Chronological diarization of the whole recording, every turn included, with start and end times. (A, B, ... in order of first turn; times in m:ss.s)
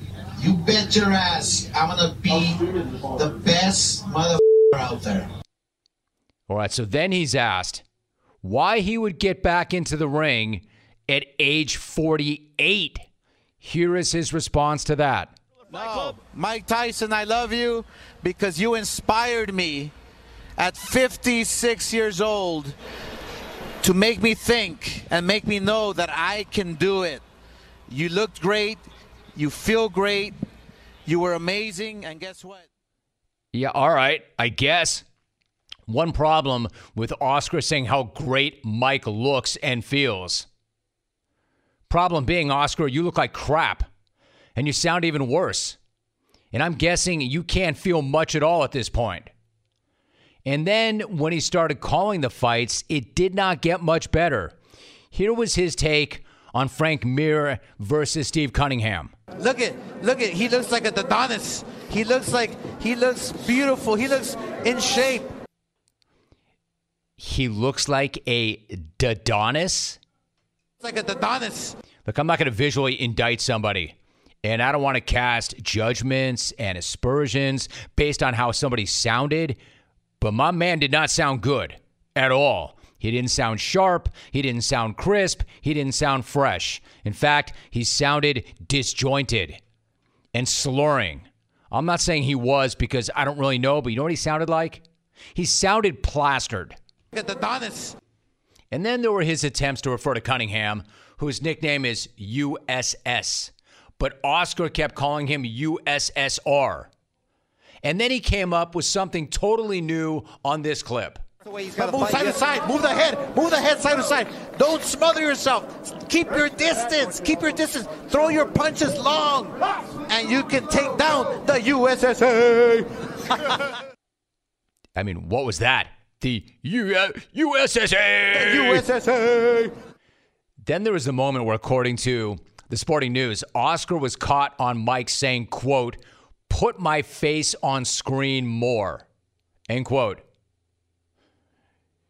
0:00.4-0:05.3 A
0:06.5-0:07.8 B
0:08.4-0:13.0 B
0:13.6-0:15.3 B
0:15.7-0:19.9 C
0:20.6-0:22.7 C
0:23.8-0:27.2 C
0:27.9-0:28.8 C
0:29.4-0:30.4 C
0:31.0-0:32.6 C
0:33.5-0:35.0 B
0:35.9-0:40.5 B
0:41.9-0:43.9 B
0:44.6-0:45.8 B
0:46.5-0:49.3 B
0:50.4-0:54.6 B
0:55.1-0:59.1 B
0:59.4-1:05.3 C
1:07.2-1:10.0 B
1:10.8-1:11.8 C
1:12.0-1:19.6 B
1:20.2-1:29.6 B
1:30.3-1:34.8 B
1:35.3-1:36.8 B
1:37.1-1:38.0 C
1:38.7-1:46.9 B
1:47.8-1:51.2 B
1:51.4-2:02.9 C
2:05.0-2:08.9 B
2:08.3-2:09.7 C
2:10.6-2:19.0 B
2:19.7-2:20.2 B